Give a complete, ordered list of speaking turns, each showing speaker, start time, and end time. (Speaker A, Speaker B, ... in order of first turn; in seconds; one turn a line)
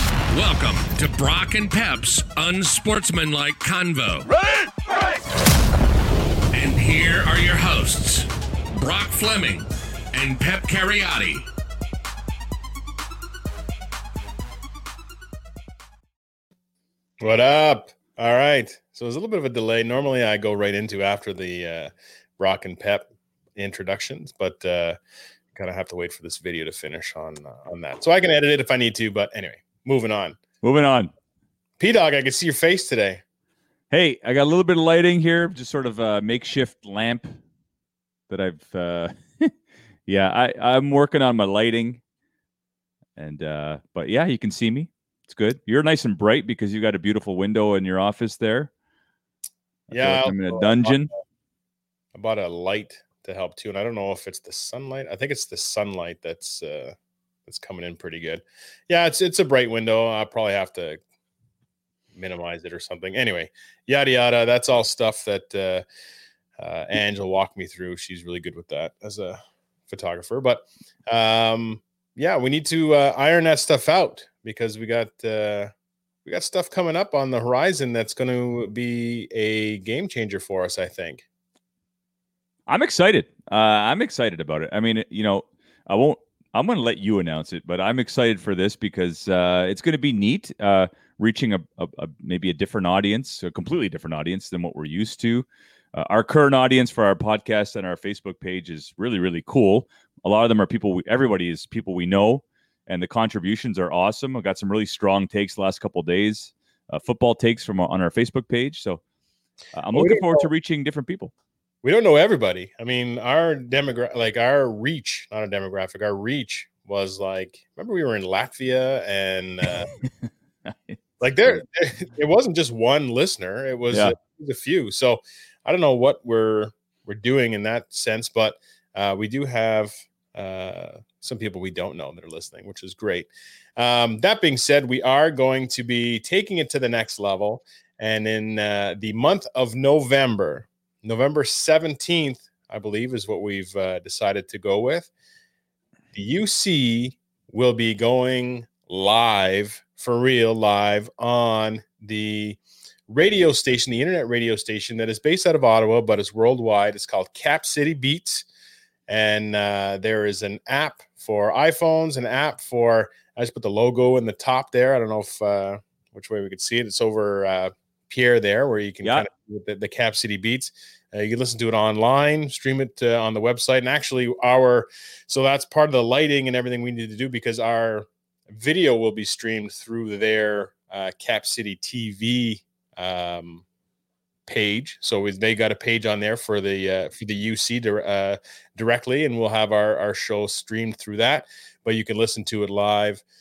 Speaker A: 0.3-4.3
Speaker A: 6.5-11.5
Speaker B: 17.2-25.0
Speaker B: 25.5-30.4
Speaker C: 30.6-31.1
Speaker B: 31.8-33.2
Speaker C: 33.9-37.4
Speaker C: 38.3-39.5
Speaker C: 40.1-42.0
Speaker C: 43.2-48.7
Speaker C: 49.9-51.1
Speaker B: 49.9-51.1
Speaker B: 52.1-56.9
Speaker B: 57.5-61.0
Speaker B: 62.1-65.8
Speaker B: 66.6-75.7
Speaker B: 76.2-81.2
Speaker C: 82.7-109.0
Speaker C: 109.7-111.3
Speaker B: 109.9-110.5
Speaker B: 111.8-119.9
Speaker C: 120.7-121.6
Speaker B: 121.2-145.1
Speaker B: 146.1-158.4
Speaker B: 159.1-183.6
Speaker B: 184.5-193.2